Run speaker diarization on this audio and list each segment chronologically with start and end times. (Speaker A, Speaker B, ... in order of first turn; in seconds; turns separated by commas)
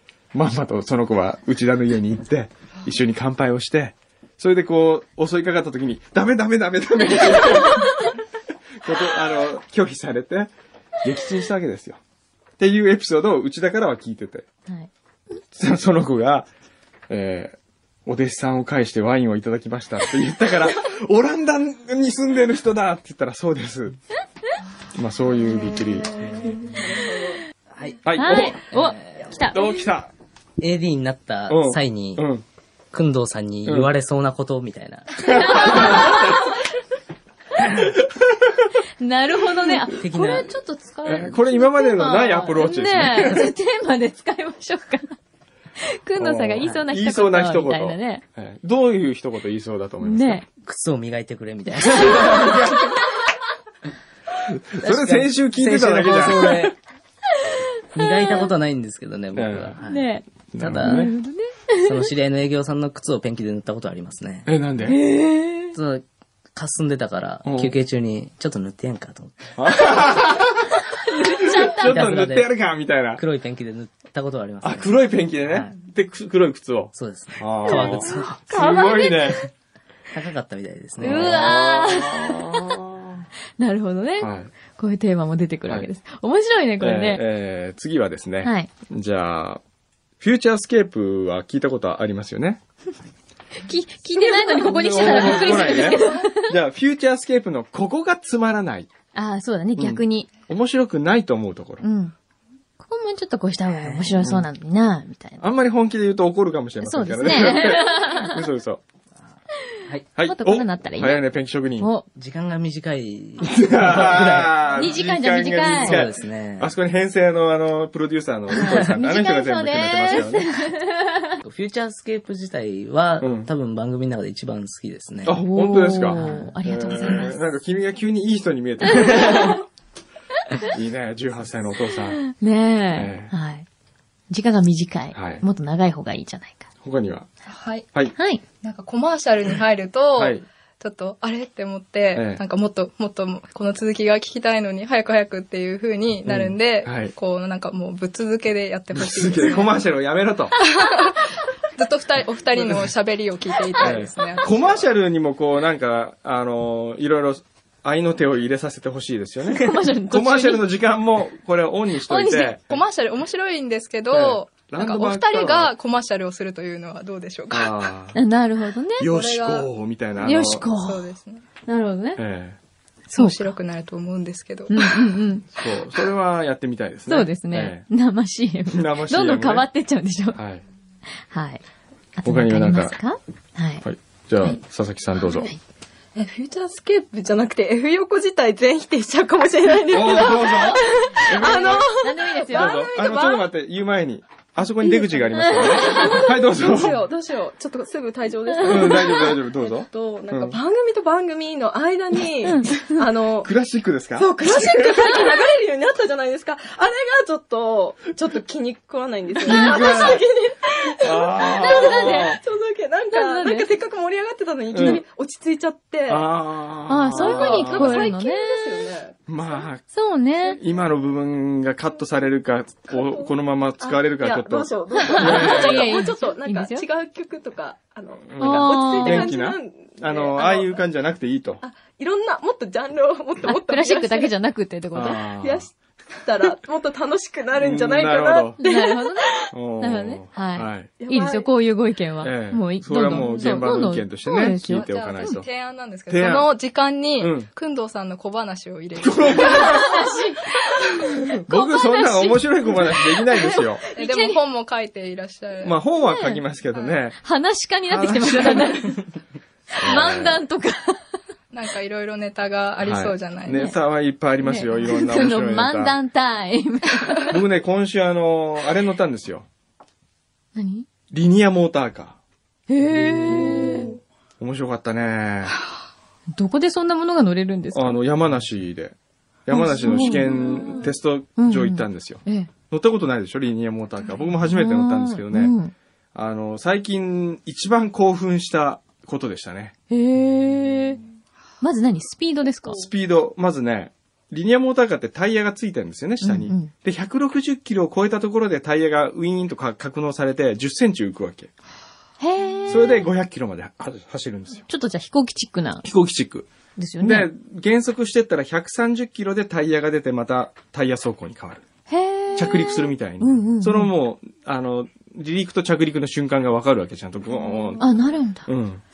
Speaker A: 0.3-8.1, Speaker A: 8.8-10.5, Speaker A: 11.0-12.0, Speaker A: 12.6-14.5, Speaker A: 15.5-16.5, Speaker A: 17.1-24.0, Speaker A: 24.9-26.4, Speaker B: 26.2-27.4, Speaker C: 27.7-29.4, Speaker A: 28.0-28.6, Speaker D: 28.1-29.9, Speaker A: 29.5-30.1, Speaker C: 30.6-32.2, Speaker A: 31.5-32.4, Speaker C: 32.9-35.9, Speaker A: 33.6-33.9, Speaker A: 35.2-36.4, Speaker D: 35.4-36.3, Speaker D: 39.0-45.1, Speaker C: 40.0-40.5, Speaker A: 41.0-43.5, Speaker D: 45.8-48.2, Speaker A: 46.2-50.4, Speaker D: 50.0-50.5, Speaker C: 50.6-52.7, Speaker D: 51.8-52.6, Speaker A: 52.0-53.0, Speaker A: 54.5-56.7, Speaker C: 54.8-56.8, Speaker D: 57.4-58.5, Speaker C: 57.9-61.1, Speaker A: 59.3-59.8, Speaker D: 59.9-60.3, Speaker A: 60.5-61.1, Speaker D: 60.8-62.1, Speaker C: 61.8-64.5, Speaker A: 64.5-65.0, Speaker D: 64.8-65.8, Speaker C: 65.7-69.5, Speaker A: 67.4-67.7, Speaker A: 69.5-70.7, Speaker D: 71.0-72.0, Speaker A: 71.4-73.2, Speaker C: 71.5-72.5, Speaker C: 73.2-74.9, Speaker A: 74.6-79.4, Speaker C: 76.9-78.4, Speaker D: 77.7-78.8, Speaker C: 80.1-81.5, Speaker A: 81.0-83.3, Speaker D: 81.0-82.8, Speaker D: 83.6-87.2, Speaker A: 84.2-84.5, Speaker A: 86.8-89.6, Speaker D: 88.4-88.7, Speaker A: 90.2-92.6, Speaker D: 93.6-96.5, Speaker A: 94.5-98.9, Speaker D: 99.1-100.3, Speaker A: 99.8-101.8, Speaker D: 101.8-102.1, Speaker D: 102.8-105.4, Speaker C: 103.7-104.2, Speaker A: 104.2-104.5, Speaker A: 105.4-108.8, Speaker D: 106.8-108.4, Speaker A: 110.1-111.9, Speaker D: 110.2-111.2, Speaker D: 111.8-112.0, Speaker C: 112.1-114.9, Speaker A: 113.4-120.7, Speaker D: 114.8-116.0, Speaker C: 115.6-116.7, Speaker D: 118.5-121.4, Speaker C: 121.4-125.4, Speaker A: 123.2-123.5, Speaker A: 125.2-129.6, Speaker D: 125.3-127.4, Speaker C: 126.1-126.4, Speaker D: 128.9-129.6, Speaker A: 130.6-132.2, Speaker D: 132.3-133.7, Speaker A: 132.9-133.3, Speaker D: 134.3-136.7, Speaker A: 135.1-135.4, Speaker A: 136.8-137.3, Speaker E: 137.5-137.8, Speaker D: 138.2-138.4, Speaker E: 138.6-149.7, Speaker A: 140.1-140.4, Speaker A: 142.1-142.4, Speaker A: 146.2-147.1, Speaker A: 148.9-150.6, Speaker E: 150.7-154.7, Speaker A: 152.6-152.9, Speaker A: 153.8-162.7, Speaker D: 159.5-160.6, Speaker D: 162.1-162.6, Speaker E: 162.7-167.8, Speaker A: 164.1-165.7, Speaker A: 167.5-168.2, Speaker D: 168.1-169.1, Speaker A: 169.0-170.7, Speaker E: 169.0-169.7, Speaker D: 170.2-171.1, Speaker E: 170.7-171.4, Speaker D: 171.7-172.2, Speaker A: 172.2-172.6, Speaker E: 173.1-174.9, Speaker D: 173.1-173.5, Speaker D: 174.7-175.4, Speaker A: 175.5-177.8, Speaker D: 177.1-180.4, Speaker A: 178.7-179.7, Speaker A: 180.3-180.6, Speaker D: 181.2-181.6, Speaker D: 182.2-183.8, Speaker A: 182.2-182.9, Speaker A: 183.8-185.5, Speaker D: 185.3-185.6, Speaker B: 186.1-193.5, Speaker A: 189.9-191.9, Speaker D: 191.9-192.9, Speaker A: 192.5-197.0, Speaker D: 195.3-196.2, Speaker B: 195.4-203.5, Speaker A: 198.6-200.6, Speaker D: 202.4-202.9, Speaker A: 203.4-205.2, Speaker B: 204.2-216.3, Speaker A: 209.4-210.2, Speaker D: 209.5-210.0, Speaker A: 211.0-212.4, Speaker D: 211.5-212.4, Speaker D: 213.1-213.7, Speaker A: 214.7-215.0, Speaker A: 216.1-218.1, Speaker D: 216.9-218.9, Speaker B: 217.2-219.2, Speaker A: 219.3-219.8, Speaker D: 219.9-220.6, Speaker A: 220.4-225.9, Speaker B: 222.9-230.8, Speaker D: 225.0-226.8, Speaker A: 228.3-231.6, Speaker D: 228.4-229.3, Speaker B: 231.6-234.3, Speaker D: 233.4-235.2, Speaker A: 234.9-235.7, Speaker B: 235.2-239.5, Speaker A: 237.5-238.6, Speaker D: 238.6-245.4, Speaker A: 239.5-240.9, Speaker B: 241.0-241.4, Speaker A: 242.2-245.4, Speaker E: 244.7-249.9, Speaker A: 246.1-246.5, Speaker A: 247.2-247.5, Speaker A: 249.0-249.9, Speaker D: 249.5-250.4, Speaker A: 251.3-253.8, Speaker D: 251.4-254.4, Speaker E: 253.9-255.8, Speaker A: 255.6-257.2, Speaker D: 256.1-256.4, Speaker D: 257.2-259.0, Speaker A: 257.9-258.9, Speaker D: 259.7-261.0, Speaker A: 259.7-260.4, Speaker E: 261.5-263.6, Speaker A: 262.8-266.0, Speaker D: 263.5-263.8, Speaker D: 264.4-267.4, Speaker A: 267.3-269.5, Speaker D: 270.6-270.9, Speaker A: 271.1-272.2, Speaker D: 272.7-273.9, Speaker A: 273.2-273.8, Speaker A: 274.4-275.6, Speaker D: 276.3-278.0, Speaker A: 277.7-285.5, Speaker D: 279.5-280.5, Speaker D: 281.4-282.5, Speaker D: 284.5-285.7, Speaker A: 286.1-289.7, Speaker D: 289.9-291.0, Speaker D: 291.6-292.8, Speaker A: 292.7-301.5, Speaker D: 296.2-296.7, Speaker D: 302.2-303.1, Speaker A: 302.7-304.6, Speaker D: 304.7-305.8, Speaker A: 305.8-306.5, Speaker D: 306.8-307.3, Speaker A: 307.0-311.6, Speaker D: 311.9-313.9, Speaker A: 312.3-317.9, Speaker D: 317.8-318.5, Speaker A: 318.4-318.8